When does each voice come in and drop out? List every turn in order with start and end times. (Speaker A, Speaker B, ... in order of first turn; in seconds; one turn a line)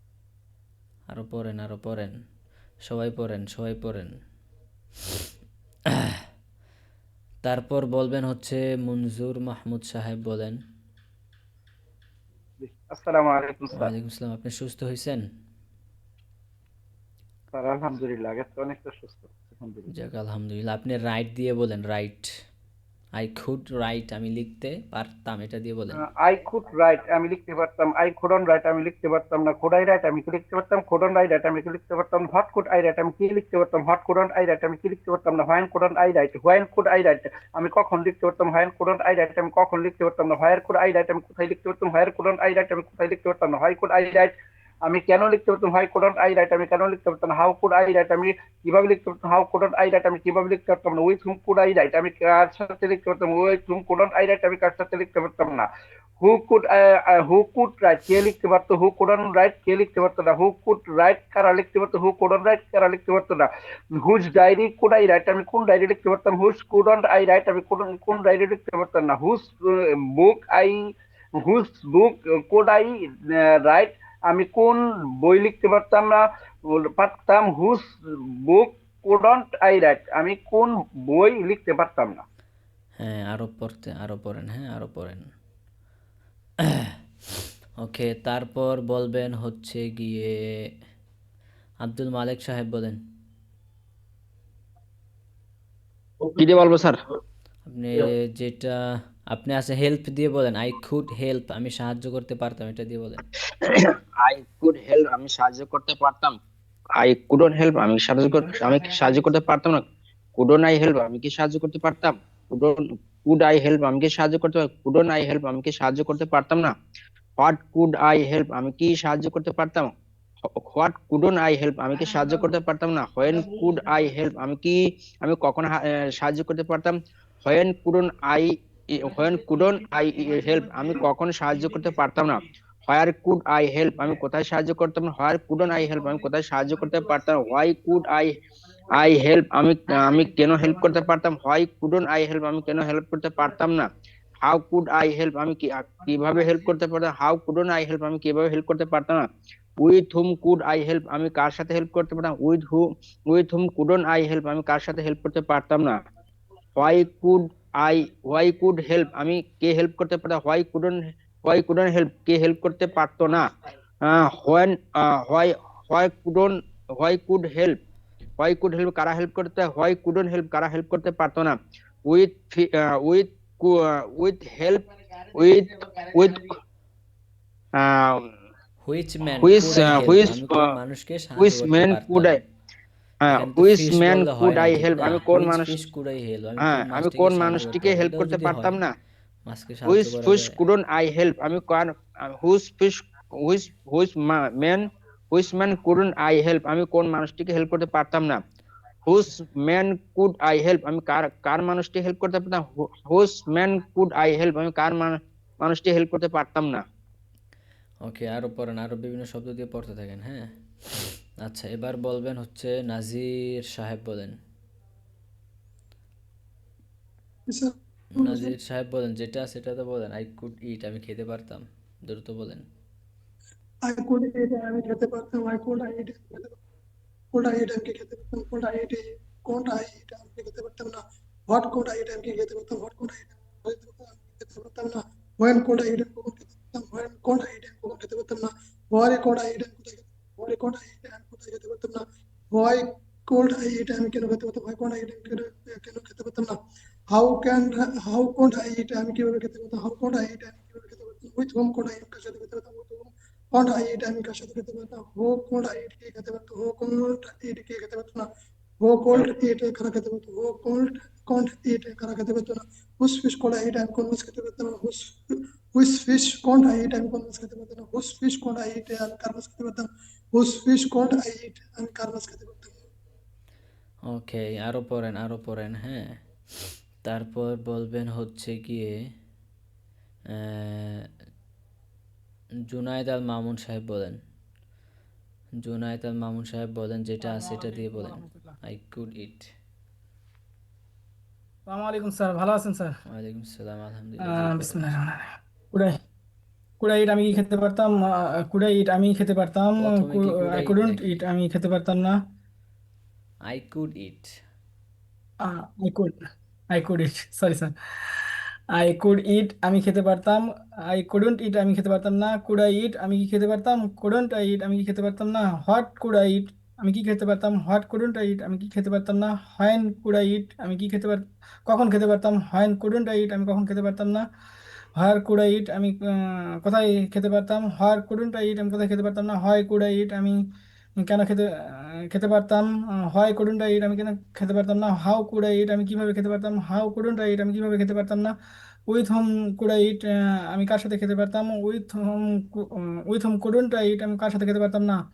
Speaker A: 1.1-2.1
Speaker A: 2.9-4.1
Speaker A: 7.4-10.6
Speaker B: 12.6-13.9
Speaker A: 13.7-15.2
Speaker B: 17.5-19.9
Speaker A: 19.9-22.3
Speaker A: 23.2-26.0
Speaker B: 25.9-55.7
Speaker B: 56.2-82.2
Speaker A: 83.0-85.2
Speaker A: 87.8-90.3
Speaker A: 91.8-93.0
Speaker C: 96.2-97.0
Speaker A: 97.7-98.7
Speaker A: 99.3-103.2
Speaker C: 103.7-106.3
Speaker C: 107.0-109.8
Speaker C: 110.4-116.7
Speaker C: 117.4-119.9
Speaker C: 120.6-138.3
Speaker C: 138.9-143.9
Speaker C: 144.4-149.3
Speaker C: 149.8-156.0
Speaker C: 156.8-163.5
Speaker C: 164.0-167.8
Speaker C: 168.4-176.6
Speaker C: 177.8-178.3
Speaker A: 178.8-182.4
Speaker C: 179.4-180.6
Speaker C: 181.4-182.4
Speaker C: 183.2-185.8
Speaker A: 183.3-188.8
Speaker C: 186.6-188.9
Speaker A: 189.5-190.6
Speaker C: 189.9-198.4
Speaker C: 199.1-206.8
Speaker A: 208.1-210.5
Speaker A: 211.4-214.4
Speaker D: 217.5-218.5
Speaker A: 218.2-222.7
Speaker D: 223.9-226.6
Speaker D: 227.3-246.6
Speaker D: 247.1-258.3
Speaker D: 258.8-265.1
Speaker D: 265.7-272.8
Speaker A: 274.1-276.1
Speaker A: 277.1-278.9
Speaker A: 280.6-281.0
Speaker A: 282.7-284.2
Speaker A: 285.6-289.5
Speaker E: 287.2-288.6
Speaker E: 291.7-292.9
Speaker A: 293.1-294.9
Speaker E: 294.2-295.9
Speaker E: 296.8-302.2
Speaker A: 299.8-301.2
Speaker A: 303.5-304.3
Speaker E: 305.4-306.2
Speaker E: 306.7-307.7
Speaker E: 308.7-324.2
Speaker E: 325.0-330.4
Speaker E: 331.0-338.3
Speaker E: 338.9-345.0